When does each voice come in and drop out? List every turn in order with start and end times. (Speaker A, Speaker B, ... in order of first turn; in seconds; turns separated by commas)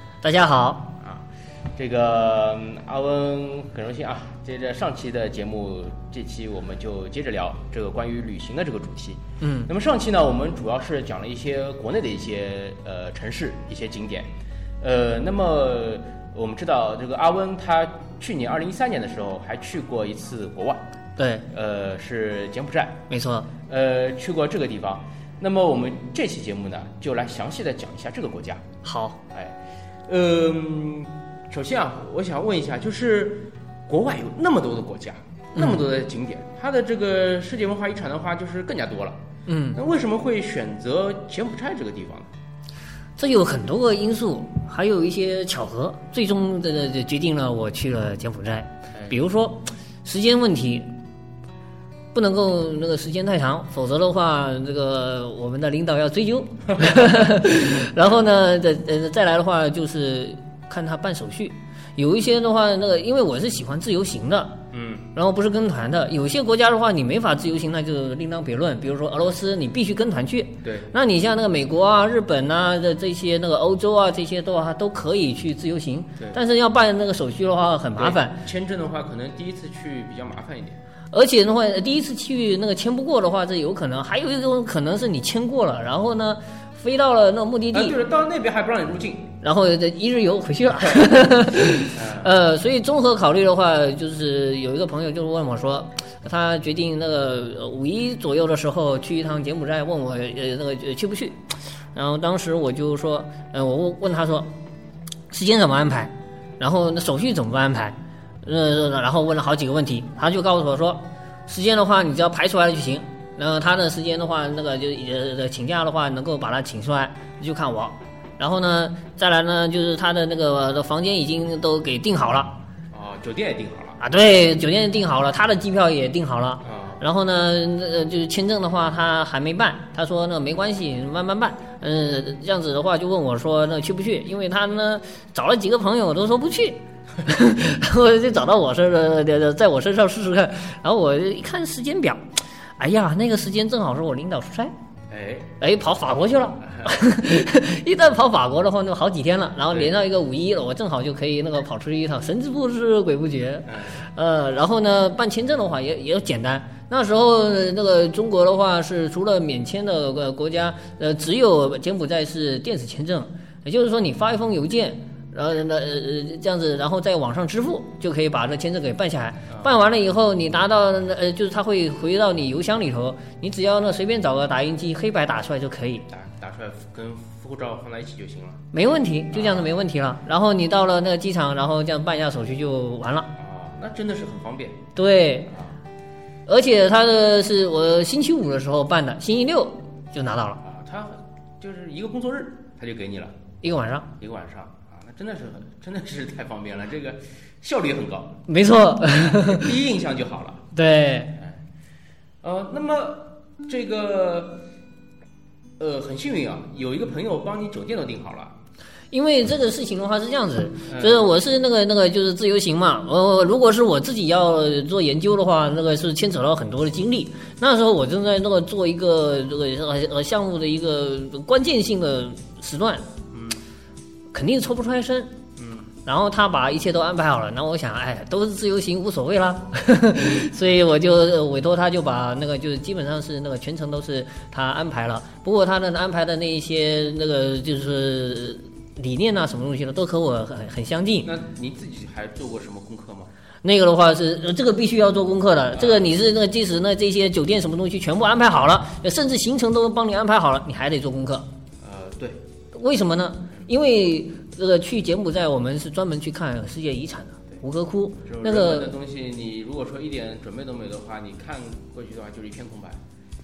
Speaker A: 0.2-0.9, Speaker B: 1.0-20.9, Speaker A: 9.4-9.7, Speaker A: 21.2-21.5, Speaker B: 21.5-23.0, Speaker A: 23.1-23.5, Speaker B: 23.7-28.7, Speaker A: 28.8-29.2, Speaker B: 29.3-39.2, Speaker A: 35.5-35.9, Speaker A: 39.5-39.8, Speaker B: 39.7-42.3, Speaker A: 43.2-50.9, Speaker A: 52.1-64.6, Speaker B: 56.8-57.2, Speaker B: 64.7-65.1, Speaker A: 65.1-78.4, Speaker B: 70.6-70.9, Speaker B: 78.0-80.8, Speaker A: 81.1-88.0, Speaker B: 87.7-89.3, Speaker A: 89.4-104.5, Speaker B: 91.9-92.3, Speaker A: 105.3-122.6, Speaker B: 122.9-124.0, Speaker A: 124.0-142.2, Speaker B: 126.6-127.0, Speaker A: 142.8-144.7, Speaker B: 145.1-145.5, Speaker A: 145.6-176.1, Speaker B: 146.7-146.9, Speaker B: 153.7-154.0, Speaker B: 169.5-169.8, Speaker B: 176.1-178.7, Speaker A: 178.7-183.3, Speaker B: 179.3-179.7, Speaker B: 183.4-184.9, Speaker A: 185.0-185.5, Speaker B: 185.5-185.8, Speaker A: 186.5-190.6, Speaker B: 190.6-193.4, Speaker A: 193.6-194.1, Speaker B: 194.2-198.4, Speaker A: 198.5-199.8, Speaker B: 199.1-200.7, Speaker A: 200.7-201.4, Speaker B: 202.4-204.6, Speaker B: 205.8-208.6, Speaker A: 209.1-223.1, Speaker B: 210.9-211.3, Speaker B: 223.3-223.6, Speaker A: 224.3-225.3, Speaker B: 225.6-225.9, Speaker A: 226.1-241.3, Speaker B: 241.2-243.3, Speaker A: 243.6-251.5, Speaker B: 245.7-246.1, Speaker B: 251.8-252.4, Speaker A: 252.7-258.9, Speaker B: 258.2-263.0